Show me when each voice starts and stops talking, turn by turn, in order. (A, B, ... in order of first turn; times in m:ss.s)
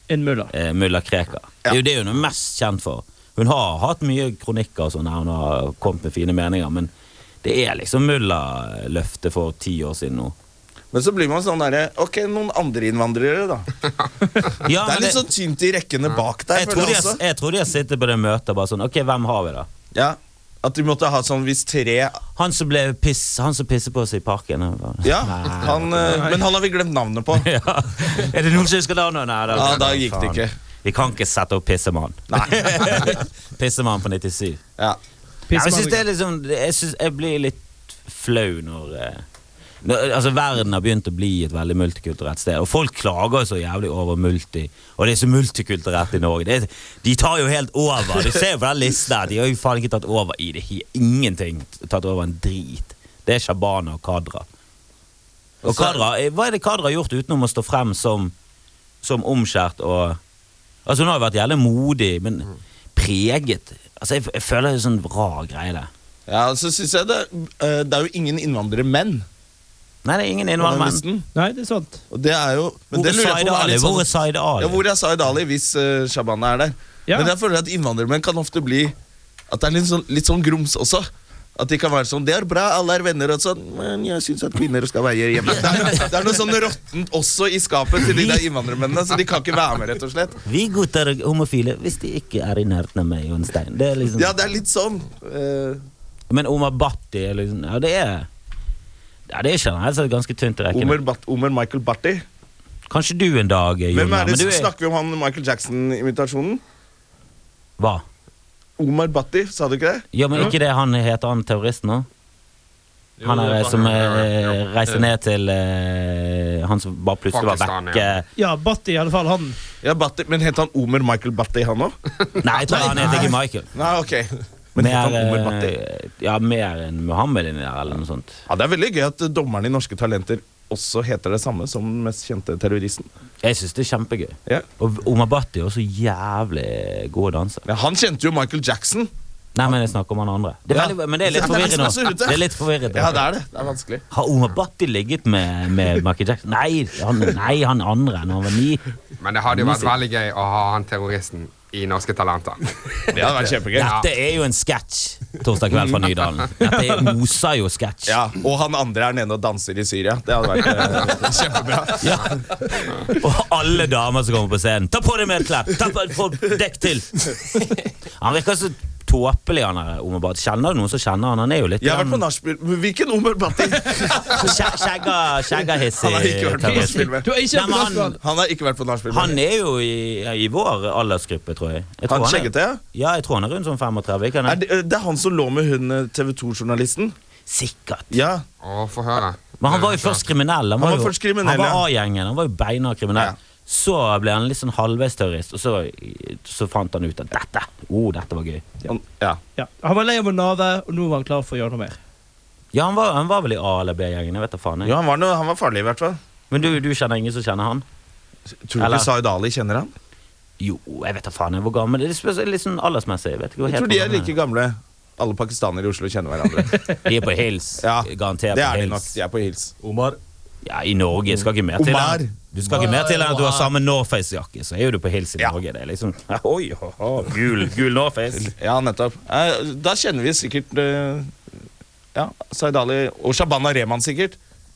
0:00.1-0:00.5 A
0:00.5-0:06.9 B
0:07.4-0:10.3 B
0:10.9-0:13.7 C
0:14.6-0:15.2 B
0:14.8-0:17.2 C
0:16.5-0:19.7 B
0:20.0-0:22.2 C
0:22.4-0:26.4 B
0:25.0-0:27.5 C
0:27.4-0:34.6 B
0:29.5-0:30.5 C
0:32.3-0:33.2 C
0:35.5-0:36.0 A
0:35.5-0:39.2 B
0:39.8-0:54.4 B
0:55.6-0:56.0 C
0:55.6-0:58.3 B
0:59.0-1:00.2 B
1:00.9-1:05.9 B
1:06.3-1:09.2 C
1:10.0-1:11.0 B
1:10.6-1:11.3 C
1:11.4-1:12.0 A
1:12.1-1:19.0 C
1:12.9-1:14.8 B
1:19.5-1:30.4 C
1:30.5-1:34.3 B
1:34.2-1:35.8 C
1:36.3-1:38.3 B
1:39.3-1:41.0 B
1:40.7-1:42.2 C
1:42.9-1:44.7 B
1:43.9-1:46.6 C
1:47.8-1:48.0 B
1:48.8-1:50.1 C
1:50.1-1:52.1 B
1:53.2-1:54.3 D
1:53.2-1:58.3 B
1:53.9-1:54.3 E
1:57.3-1:58.1 E
1:58.4-1:59.6 A
1:59.8-2:02.0 C
2:02.4-2:03.7 B
2:02.7-2:03.3 A
2:03.0-2:05.7 C
2:04.8-2:08.4 B
2:08.5-2:13.1 C
2:13.4-2:17.7 B
2:17.7-2:19.1 C
2:19.6-2:23.3 B
2:20.7-2:24.0 C
2:24.1-2:28.8 B
2:29.2-2:33.2 E
2:29.5-2:29.9 B
2:33.1-2:34.0 C
2:33.8-2:38.2 B
2:33.8-2:34.1 E
2:36.6-2:37.0 A
2:38.1-2:42.4 C
2:42.0-2:42.4 B
2:43.0-2:47.3 B
2:48.2-2:52.2 B
2:51.8-2:54.8 C
2:54.0-2:58.2 B
2:55.5-2:57.3 C
2:56.6-2:58.2 A
2:58.2-2:59.4 C
2:59.1-3:04.6 B
3:02.1-3:02.8 C
3:04.4-3:07.2 C
3:07.5-3:08.2 B
3:08.1-3:08.4 C
3:08.6-3:09.5 E
3:09.6-3:18.7 B
3:09.7-3:10.2 C
3:10.8-3:11.8 C
3:18.9-3:19.4 C
3:19.6-3:22.0 A
3:22.7-3:24.9 B
3:24.8-3:26.2 C
3:26.5-3:27.8 B
3:28.7-3:29.9 C
3:28.8-3:29.1 B
3:30.6-3:34.3 B
3:33.7-3:36.7 C
3:37.0-3:39.1 B
3:37.8-3:39.7 C
3:39.8-3:40.2 D
3:40.6-3:48.5 B
3:41.3-3:42.9 C
3:42.8-3:43.7 D
3:48.4-3:51.4 C
3:52.1-3:54.4 C